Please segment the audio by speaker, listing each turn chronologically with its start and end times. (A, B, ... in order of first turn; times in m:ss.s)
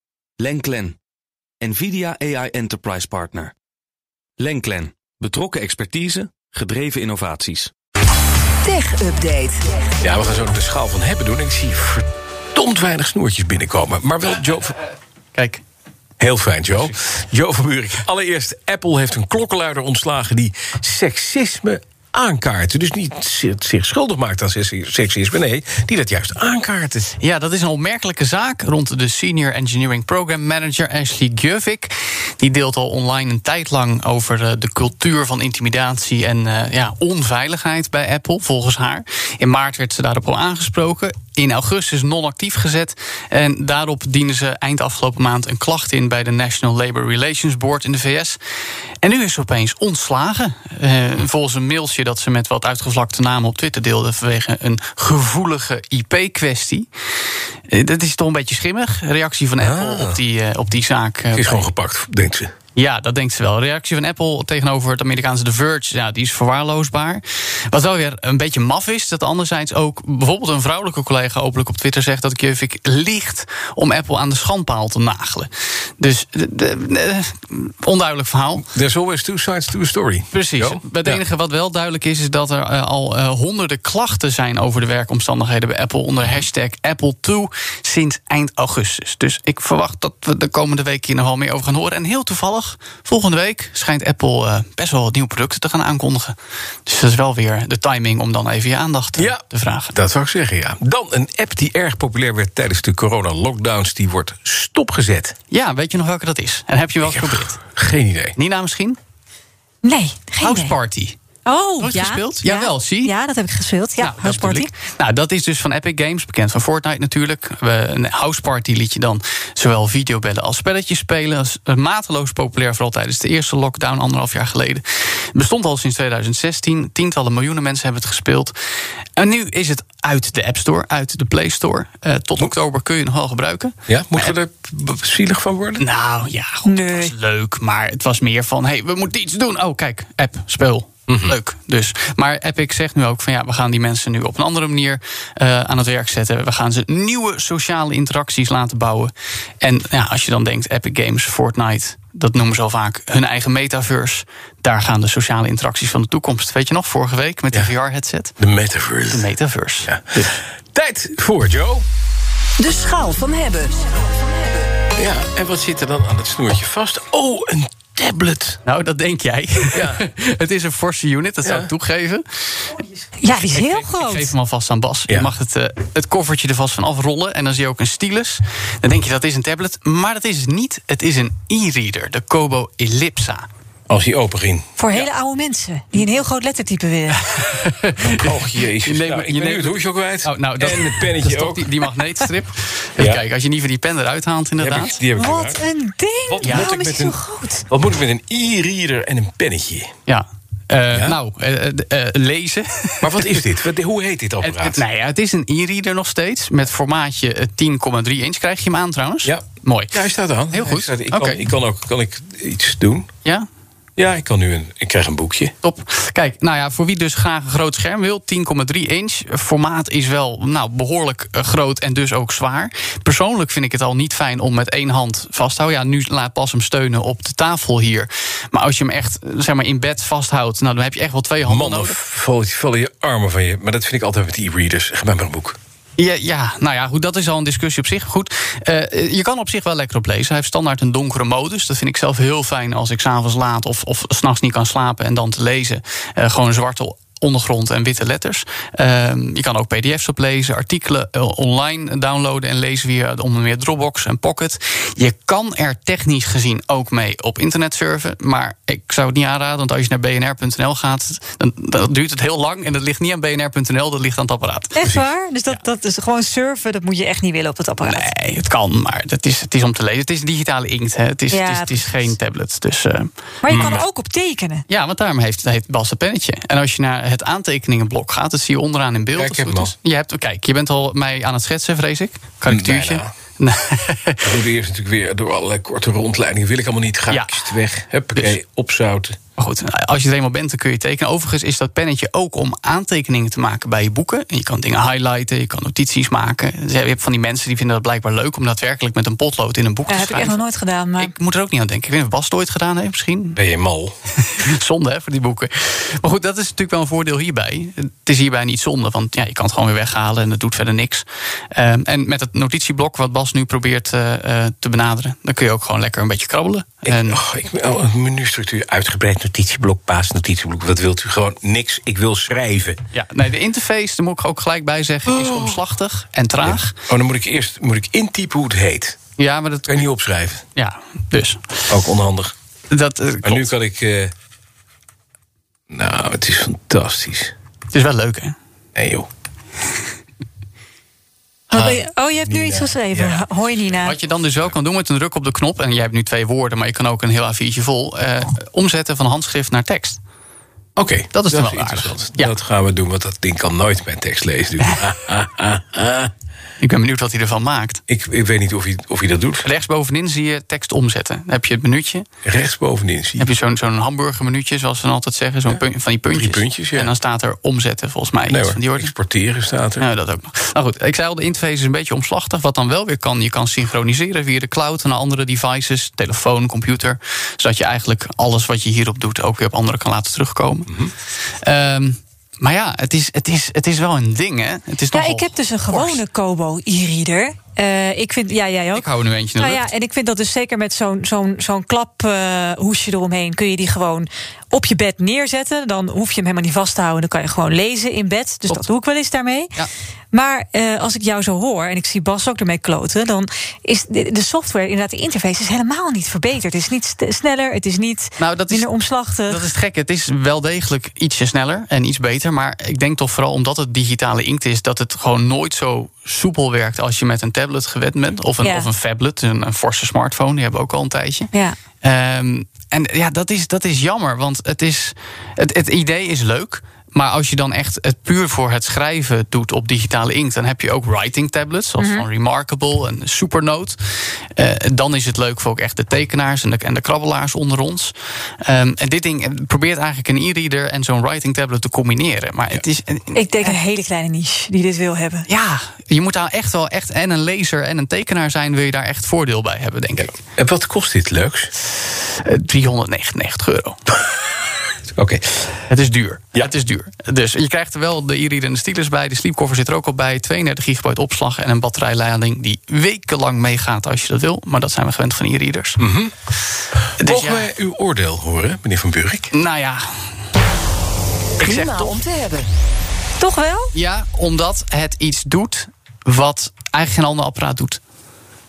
0:00.4-0:01.0 A
0:01.6-0:03.6 A
0:04.4-0:07.7 A
0:08.6-0:09.6 B
0:10.0-0:14.8 C
0:15.4-0:15.6 D
0:16.2-0:27.1 C
0:27.2-0:48.4 D
0:49.0-0:56.9 D
0:57.7-1:01.7 D
0:59.6-1:00.2 C
1:01.3-1:02.5 C
1:02.8-1:18.7 D
1:18.7-1:21.2 C
1:20.3-1:36.4 D
1:36.9-1:39.9 D
1:39.2-1:45.4 C
1:45.5-1:47.7 D
1:47.0-1:48.4 C
1:48.4-1:49.0 D
1:49.8-1:50.8 B
1:50.4-1:51.2 D
1:51.4-1:54.7 B
1:51.8-1:53.1 D
1:54.0-2:08.5 D
2:09.2-2:14.3 D
2:13.9-2:15.8 C
2:15.8-2:38.4 D
2:16.6-2:17.1 B
2:21.1-2:21.4 C
2:38.4-2:39.3 C
2:39.1-2:39.9 D
2:39.8-2:41.9 C
2:42.6-2:43.8 B
2:45.0-2:48.6 C
2:48.7-2:52.7 D
2:49.7-2:50.0 C
2:53.2-2:54.3 B
2:53.4-3:03.5 D
3:03.9-3:04.7 C
3:04.8-3:07.4 B
3:07.3-3:15.1 D
3:08.0-3:11.8 C
3:13.0-3:13.2 C
3:14.6-3:15.6 C
3:15.2-3:17.6 B
3:16.3-3:17.2 C
3:16.4-3:16.8 D
3:17.7-3:19.9 C
3:20.1-3:23.4 D
3:20.9-3:21.2 C
3:23.0-3:24.8 C
3:24.4-3:30.0 D
3:29.2-3:33.1 C
3:30.5-3:31.5 D
3:34.0-3:35.5 C
3:35.6-3:52.0 D
3:51.5-3:55.6 C
3:56.0-4:24.9 D
4:24.8-4:28.1 B
4:27.8-4:33.8 D
4:31.3-4:32.1 B
4:33.4-4:34.6 B
4:33.5-4:33.8 C
4:34.7-4:44.3 D
4:39.2-4:39.7 C
4:42.5-4:43.1 C
4:44.2-4:49.2 C
4:47.1-4:47.6 D
4:49.4-5:00.4 D
4:59.9-5:01.1 B
5:01.0-5:03.4 D
5:03.4-5:04.0 C
5:04.3-5:17.2 D
5:16.8-5:22.8 C
5:22.9-5:26.8 D
5:25.1-5:25.6 C
5:26.4-5:29.0 C
5:29.2-5:29.9 D
5:29.7-5:30.4 C
5:30.6-5:31.7 D
5:31.7-5:32.3 C
5:32.7-5:33.5 D
5:33.2-5:34.1 C
5:35.7-5:37.3 C
5:37.7-5:38.3 D
5:38.8-5:39.1 C
5:41.5-5:43.9 C
5:41.5-5:44.0 B
5:43.8-5:50.0 D
5:50.8-5:56.1 C
5:51.1-5:52.3 D
5:56.6-5:57.8 D
5:57.9-5:59.5 C
5:59.4-6:02.1 D
6:02.2-6:03.3 C
6:03.2-6:08.9 D
6:06.1-6:06.9 C
6:08.3-6:09.8 C
6:09.8-6:20.9 D
6:21.4-6:26.0 D
6:24.9-6:39.6 B
6:28.7-6:29.7 D
6:40.1-6:49.5 B
6:48.2-6:48.8 D
6:49.3-7:13.8 D
6:58.4-6:58.7 B
7:01.3-7:01.6 B
7:11.8-7:12.0 B
7:14.4-7:23.6 D
7:23.1-7:25.3 B
7:25.3-7:30.2 D
7:30.0-7:31.5 C
7:32.0-7:33.8 D
7:35.0-7:35.6 C
7:35.7-7:45.8 D
7:45.8-7:46.1 C
7:47.0-7:49.3 C
7:47.0-7:47.5 D
7:49.3-7:49.8 D
7:51.4-7:52.1 D
7:51.8-7:52.5 B
7:53.2-7:53.7 B
7:53.7-7:57.8 D